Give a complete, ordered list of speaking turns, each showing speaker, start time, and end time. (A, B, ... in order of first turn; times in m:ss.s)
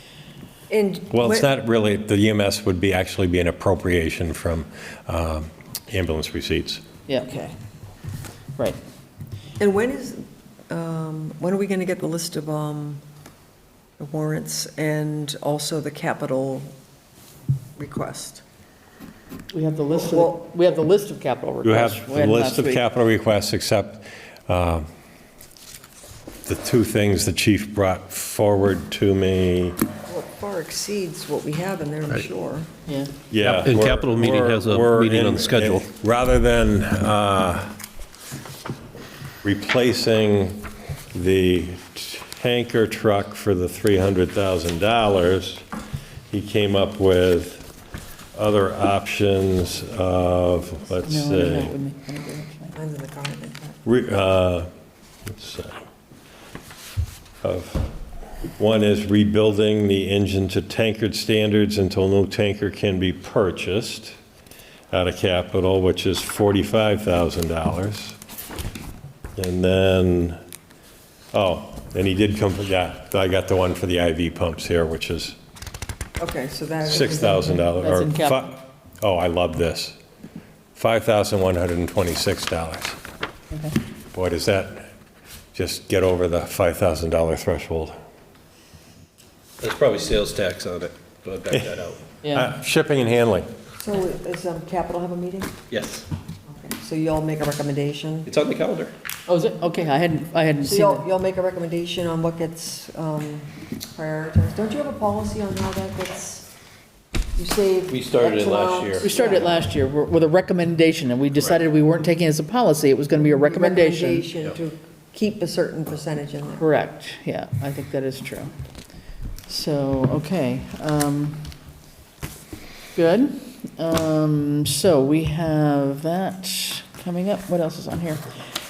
0:00.7-0:01.5 A
0:01.1-0:06.8 B
0:07.2-0:07.5 A
0:09.6-0:13.0 A
0:14.0-0:16.7 A
0:17.8-0:18.4 A
0:19.5-0:22.8 C
0:20.0-0:20.4 A
0:21.6-0:24.9 B
0:26.4-0:29.8 B
0:30.1-0:32.7 A
0:32.9-0:33.1 C
0:33.3-0:37.7 B
0:33.4-0:35.8 D
0:39.4-0:45.6 B
0:46.3-0:47.7 B
0:48.3-0:51.7 B
0:51.1-0:52.8 C
0:52.8-0:53.8 A
0:53.8-0:54.7 B
0:55.2-0:55.8 B
0:57.4-0:57.9 B
0:58.6-1:04.2 B
1:04.9-1:08.2 B
1:09.4-1:10.4 B
1:11.3-1:15.4 B
1:16.2-1:17.6 A
1:16.9-1:20.0 B
1:17.8-1:18.5 C
1:20.8-1:23.0 B
1:23.5-1:23.8 C
1:24.1-1:24.9 B
1:25.5-1:28.0 B
1:29.6-1:32.0 D
1:31.5-1:31.8 B
1:32.2-1:32.5 C
1:32.3-1:33.5 B
1:33.8-1:35.6 A
1:35.7-1:36.1 D
1:36.5-1:38.3 A
1:38.2-1:38.9 D
1:39.3-1:41.0 C
1:40.6-1:46.5 A
1:47.4-1:49.7 A
1:47.9-1:49.1 D
1:49.0-1:54.3 C
1:53.2-1:56.7 A
1:56.6-1:58.5 C
1:59.5-2:01.5 C
2:02.9-2:08.2 C